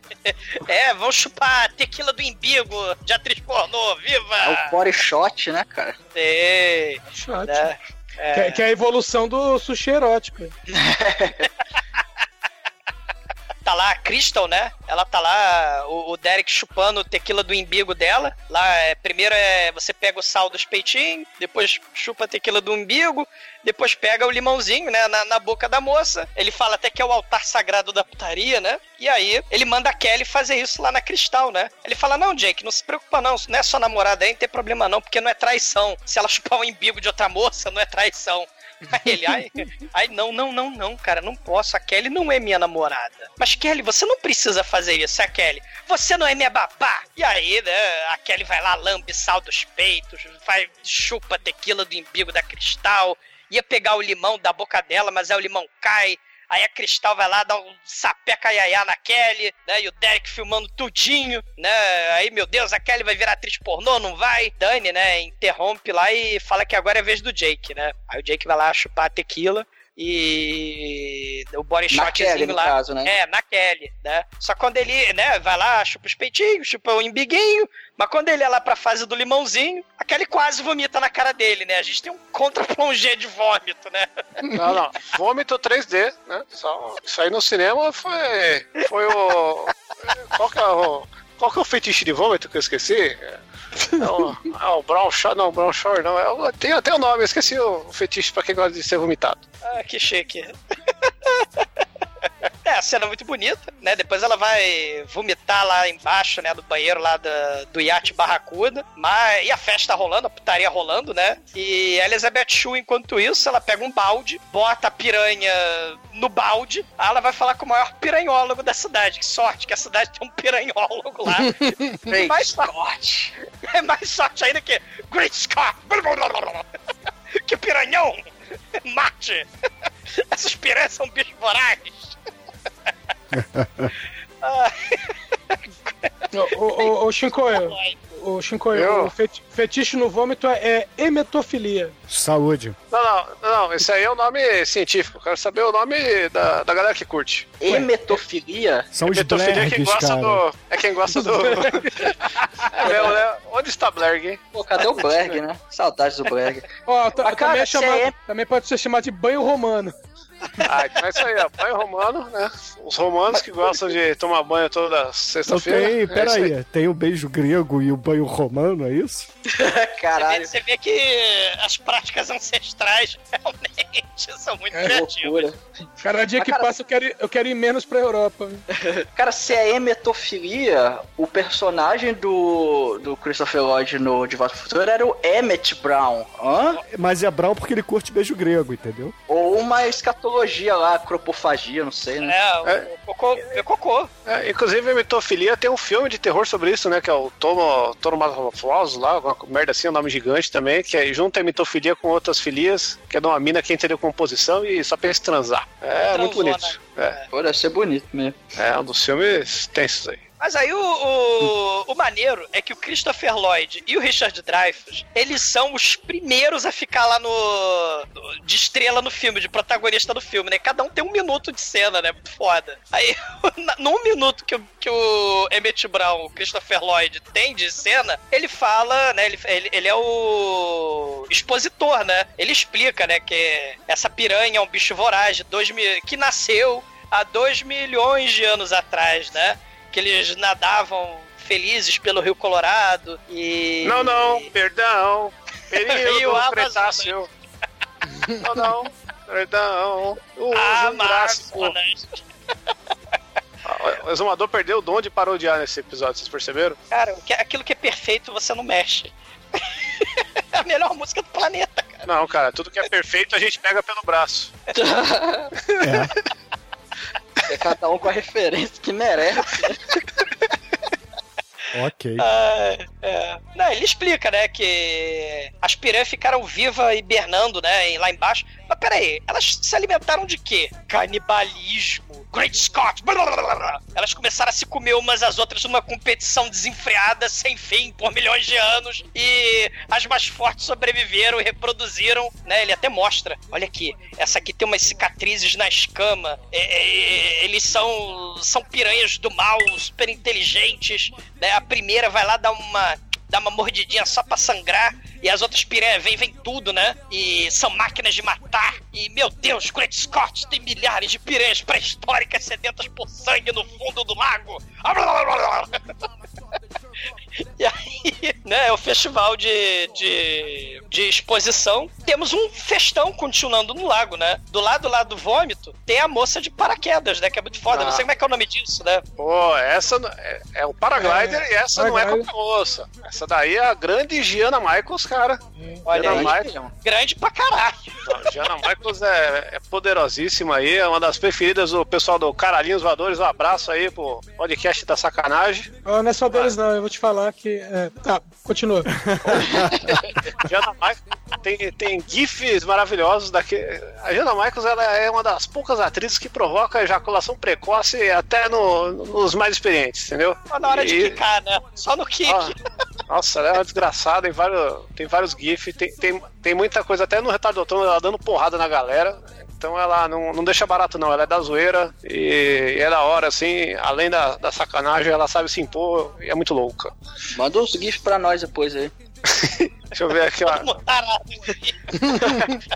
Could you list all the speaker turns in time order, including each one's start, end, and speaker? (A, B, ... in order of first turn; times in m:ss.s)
0:00.3-0:04.7 A
0:04.4-0:06.0 B
0:06.1-0:08.6 A
0:07.1-0:07.7 C
0:08.3-0:10.5 C
0:10.7-0:11.5 B
0:13.6-1:24.1 A
1:11.9-1:13.1 B
1:24.5-1:33.4 D
1:34.0-1:39.4 D
1:39.6-1:40.6 A
1:42.6-2:02.7 A
2:02.0-2:03.3 B
2:03.7-2:06.6 A
2:07.4-2:08.2 A
2:08.8-2:09.4 A
2:10.3-2:12.2 A
2:13.3-2:13.9 E
2:14.4-2:16.1 A
2:16.3-2:22.0 C
2:17.4-2:18.0 A
2:18.7-2:19.1 D
2:22.1-2:22.8 E
2:22.9-2:27.6 D
2:27.6-2:28.9 B
2:28.9-2:30.4 E
2:29.0-2:32.1 D
2:31.1-2:32.2 C
2:32.7-2:34.4 D
2:32.8-2:33.2 B
2:34.5-2:36.7 B
2:36.9-2:40.0 C
2:37.2-2:38.1 B
2:40.6-2:46.5 D
2:43.3-2:43.6 B
2:45.5-2:49.3 E
2:49.5-2:50.5 B
2:49.6-2:55.5 A
2:54.7-2:55.0 C
2:54.9-2:55.6 B
2:56.0-2:58.6 C
2:56.4-2:56.7 B
2:58.8-3:06.8 B
3:06.9-3:09.1 E
3:09.3-3:12.3 B
3:12.2-3:14.1 A
3:14.3-3:27.2 D
3:26.1-3:27.2 A
3:27.3-3:28.4 B
3:28.6-3:30.2 D
3:30.4-4:04.5 A
4:03.8-4:07.3 D
4:05.8-4:07.1 A
4:08.4-4:11.7 D
4:10.5-4:12.2 A
4:13.6-4:16.8 D
4:16.9-4:22.0 A
4:22.0-4:24.5 D
4:24.8-4:25.5 B
4:25.8-4:26.1 E
4:27.5-4:29.8 B
4:31.7-4:32.3 E
4:32.2-5:15.8 A
5:17.6-5:29.0 A
5:27.7-5:28.0 D
5:29.2-5:35.4 D
5:31.0-5:32.3 C
5:35.6-5:35.9 C
5:35.9-5:38.3 A
5:35.9-5:36.5 D
5:36.0-5:36.7 B
5:38.1-5:45.7 D
5:45.8-5:48.9 C
5:48.9-5:49.7 E
5:50.4-6:01.2 D
6:00.5-6:02.6 A
6:02.3-6:02.6 D
6:03.1-6:16.9 D
6:17.3-6:18.9 B
6:19.3-6:20.7 D
6:20.4-6:21.8 A